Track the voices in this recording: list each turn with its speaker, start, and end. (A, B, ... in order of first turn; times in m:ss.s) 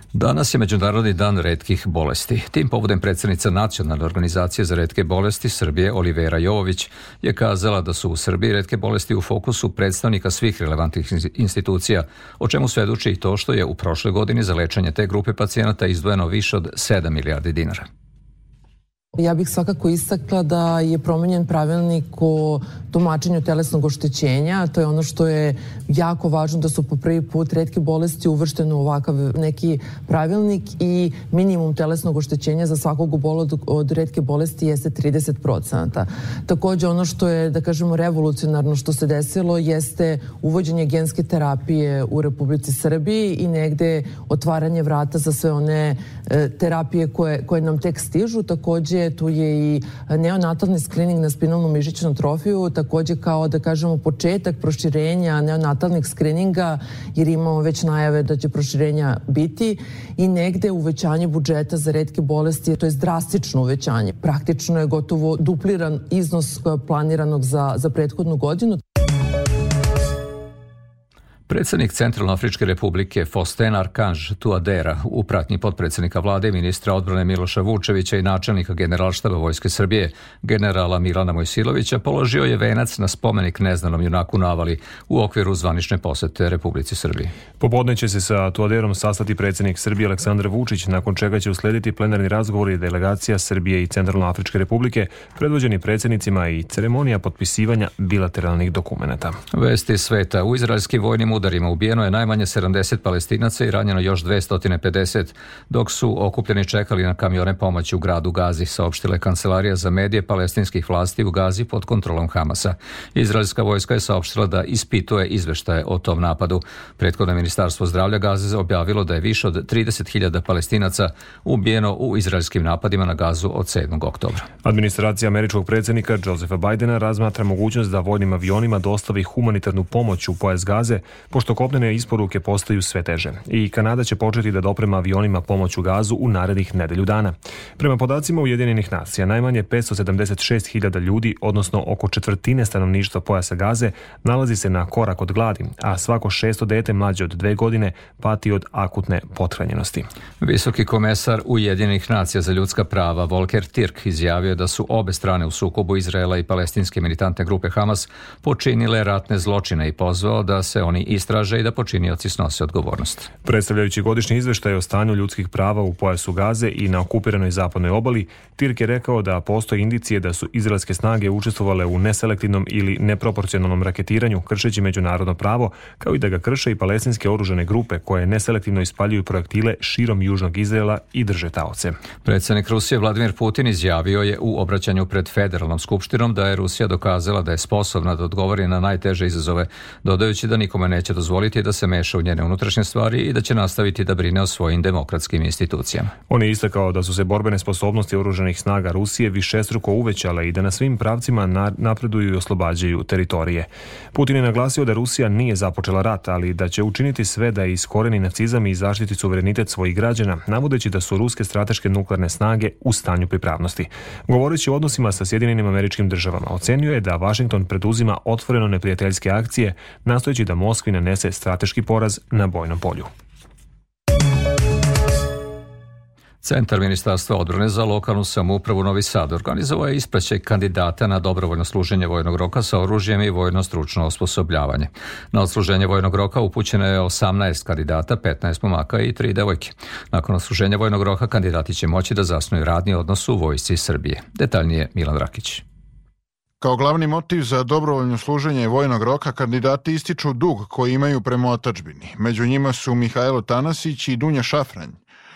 0:00.1-0:17.8 A
0:19.1-1:08.8 B
1:11.5-1:27.3 A
1:27.6-1:39.4 C
1:39.5-2:04.5 A
2:04.6-2:30.1 C
2:30.4-2:43.3 A
2:43.4-3:02.0 C
3:02.2-3:16.1 A
3:16.3-3:43.1 C
3:46.4-4:05.6 A
4:06.6-4:15.0 D